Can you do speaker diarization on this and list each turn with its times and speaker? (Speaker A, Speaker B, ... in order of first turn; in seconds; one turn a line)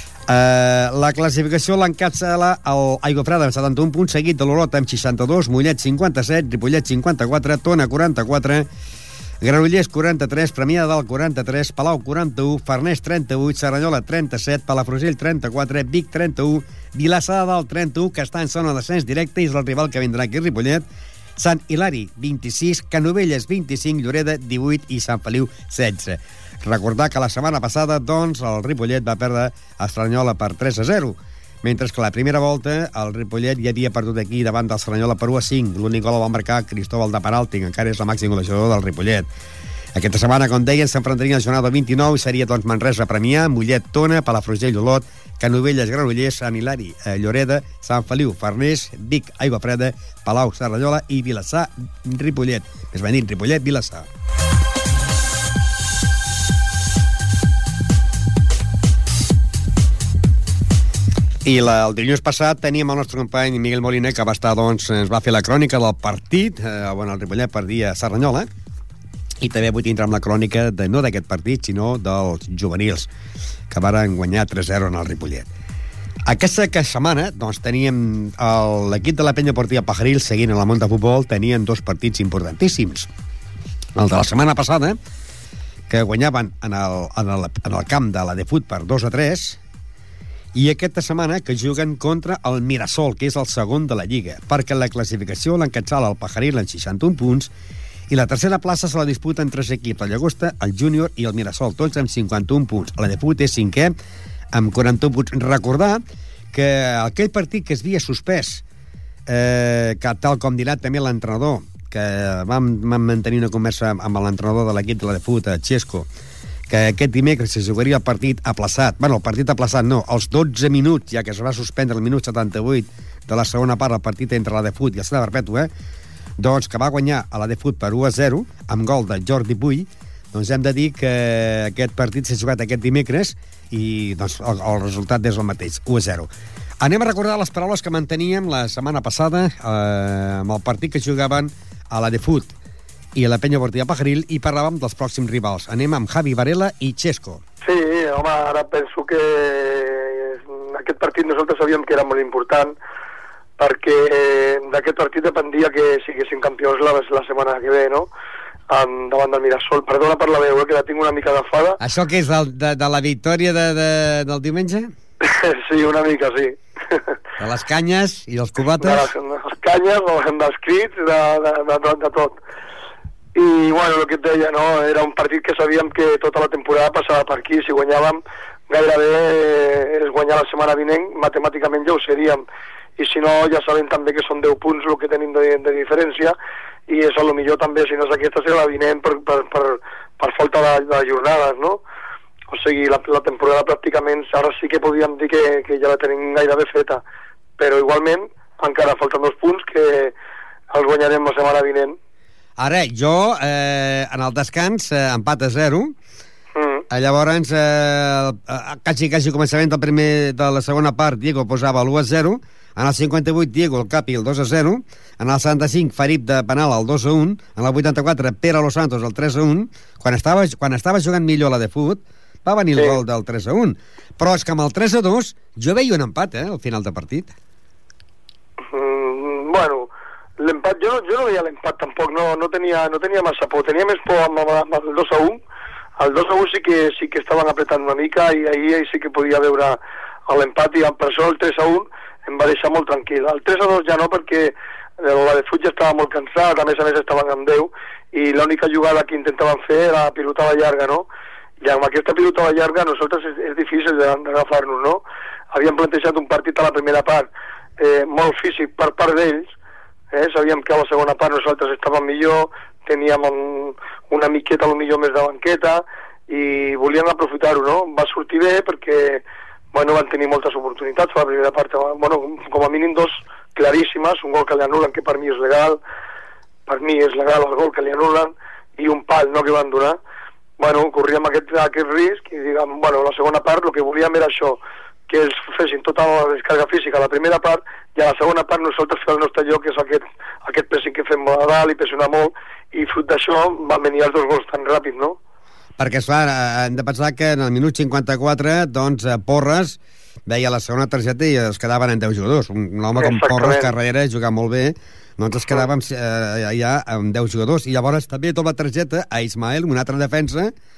Speaker A: 0.3-8.7
Speaker A: 9.4-20.9
Speaker A: 21.4-39.3
Speaker A: 39.9-54.1
Speaker A: 61.4-68.5
Speaker A: 69.4-73.1
Speaker A: 73.7-75.5
Speaker A: 76.3-83.1
Speaker A: 84.0-85.0
Speaker A: 85.9-89.6
Speaker A: 90.5-97.5
Speaker A: 98.1-103.9
Speaker A: 104.5-106.0
Speaker A: 106.5-108.6
Speaker A: 109.3-116.1
Speaker A: 116.7-125.7
Speaker A: 126.4-136.3
Speaker A: 136.8-142.5
Speaker A: 143.1-147.4
Speaker B: 147.6-152.8
Speaker B: 153.6-158.1
Speaker B: 158.7-161.8
Speaker A: 161.8-164.9
Speaker B: 165.2-167.0
Speaker A: 167.4-169.1
Speaker B: 168.8-172.3
Speaker B: 173.3-182.4
Speaker B: 183.0-186.4
Speaker B: 186.9-191.8
Speaker B: 192.5-197.0
Speaker B: 197.6-200.1
Speaker B: 200.7-201.9
Speaker A: 202.6-205.9
Speaker B: 206.6-206.8
Speaker A: 206.9-227.3
Speaker B: 228.7-229.9
Speaker B: 230.4-235.4
Speaker B: 236.0-251.1
Speaker B: 251.6-255.0
Speaker B: 255.5-259.5
Speaker B: 260.1-269.2
Speaker B: 269.7-275.8
Speaker B: 276.7-280.0
Speaker B: 280.6-295.2
Speaker A: 295.8-310.5
Speaker B: 302.9-303.7